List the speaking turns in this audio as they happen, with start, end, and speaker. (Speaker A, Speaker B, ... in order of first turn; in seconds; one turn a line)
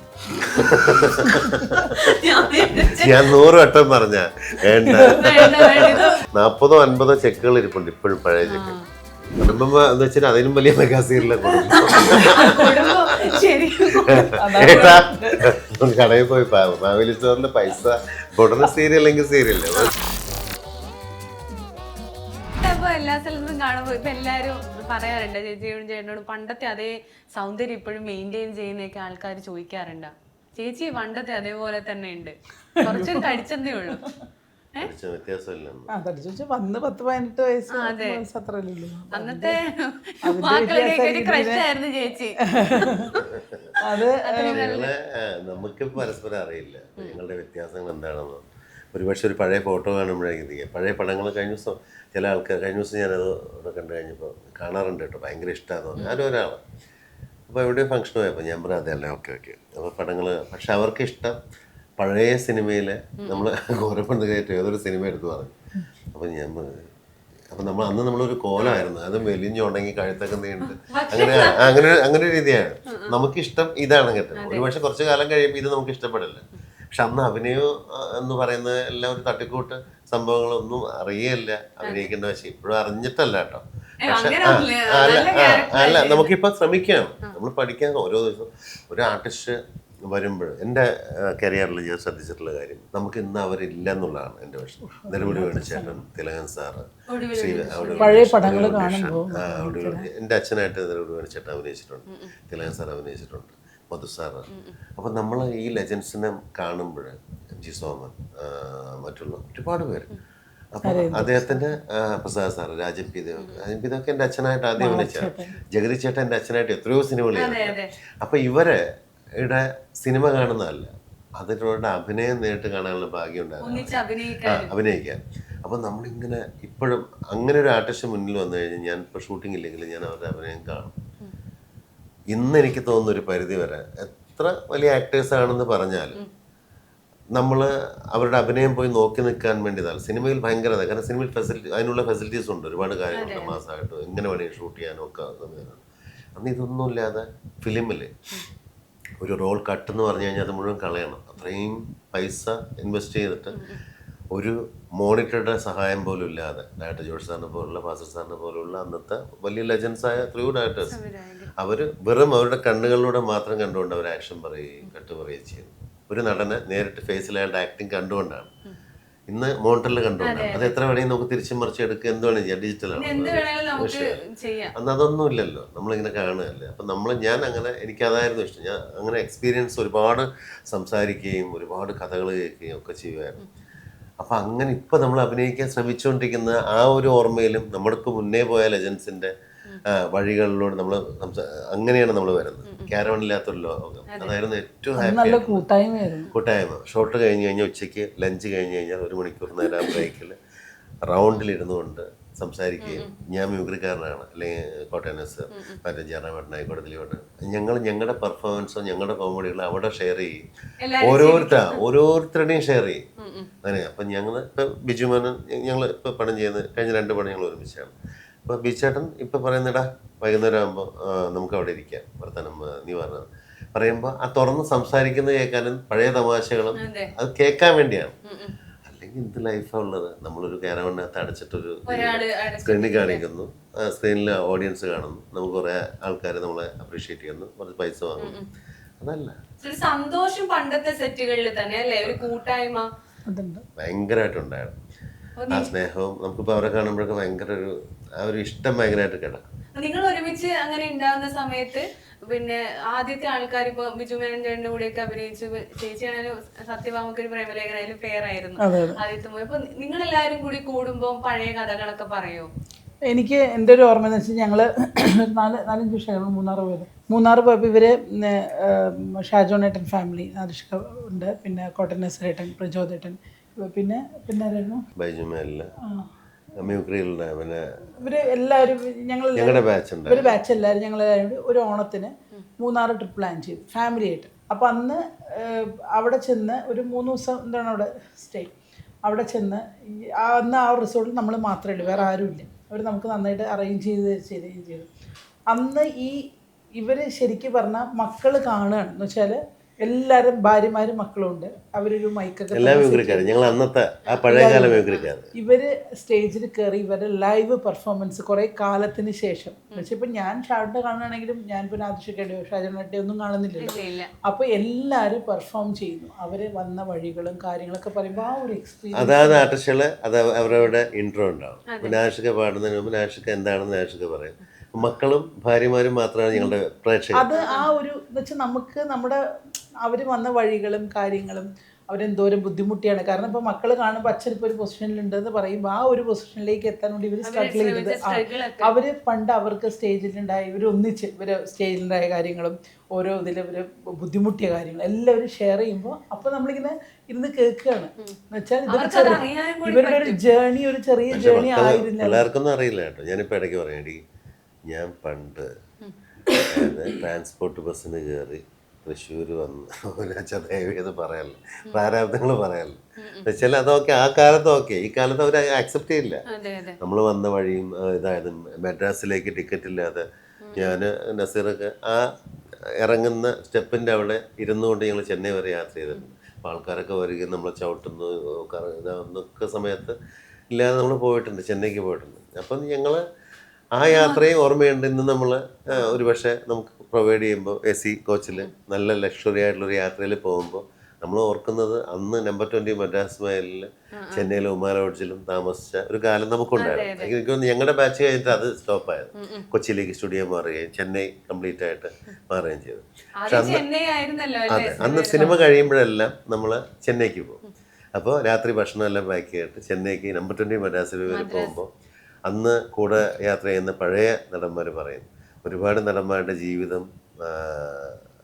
Speaker A: 0.3-8.8
Speaker B: 1.3-1.6
Speaker C: 1.8-3.4
Speaker B: 4.9-5.3
Speaker C: 5.0-6.2
Speaker C: 8.4-8.8
Speaker A: 9.4-13.4
Speaker C: 11.5-15.0
Speaker A: 13.9-19.9
Speaker B: 14.4-15.4
Speaker C: 22.5-34.0
Speaker B: 32.8-34.1
Speaker A: 34.8-35.9
Speaker B: 35.9-39.5
Speaker C: 37.7-38.2
Speaker C: 39.1-42.9
Speaker B: 40.2-41.6
Speaker B: 42.5-43.1
Speaker A: 42.8-43.7
Speaker B: 43.8-44.7
Speaker C: 44.2-44.9
Speaker A: 44.5-56.6
Speaker C: 56.0-56.3
Speaker A: 57.5-61.4
Speaker A: 62.0-65.5
Speaker C: 63.2-63.5
Speaker A: 66.1-66.9
Speaker A: 67.5-110.1
Speaker C: 70.6-71.8
Speaker C: 72.9-73.1
Speaker C: 74.3-74.7
Speaker C: 84.0-86.3
Speaker B: 94.9-96.0
Speaker C: 97.1-98.3
Speaker B: 98.0-100.1
Speaker A: 110.7-118.8
Speaker B: 110.8-111.5
Speaker B: 114.8-115.5
Speaker C: 117.3-117.9
Speaker A: 119.4-131.0
Speaker C: 123.6-124.7
Speaker A: 132.3-136.2
Speaker A: 137.3-145.8
Speaker C: 143.1-143.6
Speaker A: 146.3-148.1
Speaker A: 149.2-153.6
Speaker C: 153.5-153.8
Speaker A: 154.3-161.0
Speaker C: 160.9-161.5
Speaker A: 161.6-168.5
Speaker A: 169.3-174.2
Speaker C: 170.2-170.7
Speaker C: 172.9-174.7
Speaker A: 174.7-183.4
Speaker A: 184.2-189.3
Speaker A: 189.8-195.6
Speaker C: 192.7-192.9
Speaker C: 194.1-194.3
Speaker B: 195.0-196.3
Speaker A: 196.3-200.3
Speaker A: 201.0-210.4
Speaker C: 202.8-203.1
Speaker C: 205.5-205.8
Speaker C: 210.8-211.8
Speaker A: 211.0-213.0
Speaker C: 213.2-213.5
Speaker A: 213.6-217.9
Speaker A: 218.4-228.2
Speaker C: 226.8-227.1
Speaker C: 228.3-228.5
Speaker A: 228.8-238.4
Speaker C: 231.9-233.2
Speaker C: 238.2-238.4
Speaker A: 239.0-239.4
Speaker C: 239.6-242.9
Speaker B: 243.3-243.6
Speaker A: 243.8-244.8
Speaker C: 245.4-245.7
Speaker A: 245.5-249.5
Speaker C: 249.7-262.5
Speaker B: 258.6-259.0
Speaker B: 263.1-274.8
Speaker A: 274.9-275.7
Speaker B: 275.8-276.7
Speaker A: 276.6-278.3
Speaker B: 278.0-288.5
Speaker A: 279.4-280.4
Speaker B: 289.0-294.9
Speaker C: 291.8-292.1
Speaker B: 295.5-296.2
Speaker B: 296.8-303.3
Speaker A: 302.5-305.3
Speaker B: 304.3-319.5
Speaker C: 313.6-314.1
Speaker A: 318.9-327.2
Speaker C: 321.7-321.9
Speaker B: 327.1-329.2
Speaker C: 327.3-327.7
Speaker B: 329.8-352.2
Speaker C: 337.2-338.7
Speaker C: 348.7-350.2
Speaker A: 351.1-354.0
Speaker A: 354.7-355.5
Speaker C: 355.8-356.6
Speaker A: 356.4-366.2
Speaker C: 363.0-363.3
Speaker C: 366.3-366.8
Speaker A: 366.8-372.1
Speaker C: 370.4-370.7
Speaker A: 372.8-379.9
Speaker A: 380.5-383.0
Speaker A: 383.7-403.6
Speaker C: 383.9-384.2
Speaker C: 394.0-394.3
Speaker C: 396.6-397.1
Speaker C: 399.2-399.5
Speaker C: 403.2-405.5
Speaker A: 404.5-407.4
Speaker A: 407.9-411.7
Speaker C: 411.1-411.6
Speaker A: 412.2-418.0